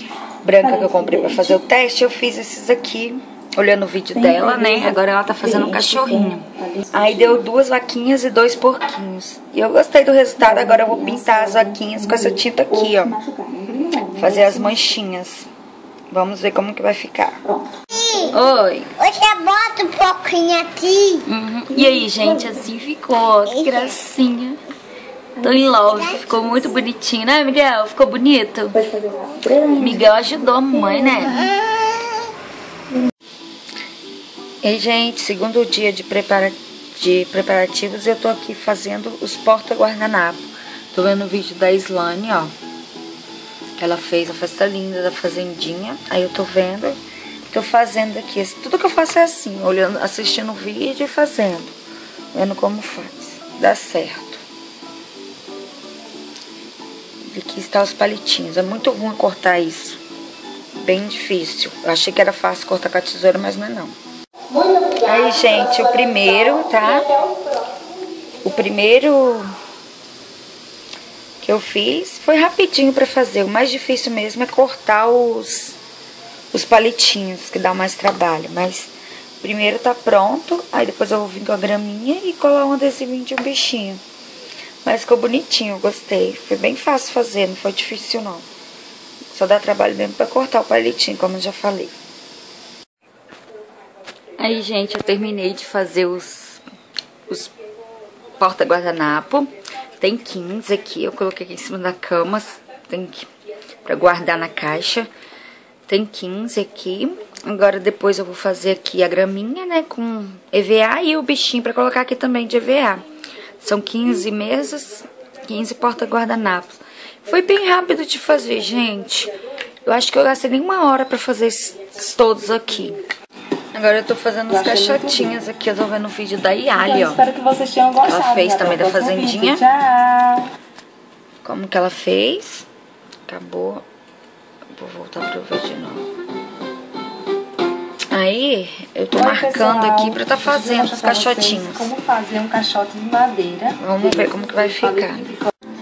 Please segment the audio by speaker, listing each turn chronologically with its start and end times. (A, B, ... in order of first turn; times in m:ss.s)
0:00.4-0:13.2 A
0:00.8-0:01.6 B
0:04.2-0:04.9 B
0:05.5-0:06.0 B
0:06.6-0:07.1 B
0:10.5-0:12.4 B
0:12.9-0:14.5 B
0:14.2-0:15.5 A
0:16.1-0:17.4 A
0:18.0-0:18.3 C
0:18.2-0:19.0 A
0:19.0-0:21.2 C
0:21.2-0:24.6 A
0:25.4-0:28.9 A
0:29.0-0:29.6 B
0:29.6-0:31.6 A
0:34.6-0:42.5 A
0:43.8-0:51.7 A
0:52.3-0:54.4 A
0:57.3-1:00.0 A
1:00.8-1:03.9 A
1:04.6-1:05.0 B
1:04.9-1:07.2 A
1:08.4-1:09.5 A
1:11.4-1:15.8 A
1:16.5-1:24.0 A
1:24.8-1:28.4 A
1:29.3-1:31.9 A
1:34.4-1:36.6 A
1:37.3-1:37.5 A
1:38.4-1:43.3 A
1:43.8-1:45.1 A
1:45.9-1:53.0 A
1:53.6-1:59.3 A
1:59.9-2:03.0 A
2:03.7-2:07.2 A
2:04.5-2:05.3 B
2:06.8-2:10.5 B
2:08.0-2:09.6 A
2:11.4-2:12.7 A
2:13.3-2:13.8 A
2:14.8-2:16.0 A
2:18.1-2:21.9 A
2:19.2-2:23.8 B
2:23.8-2:25.4 A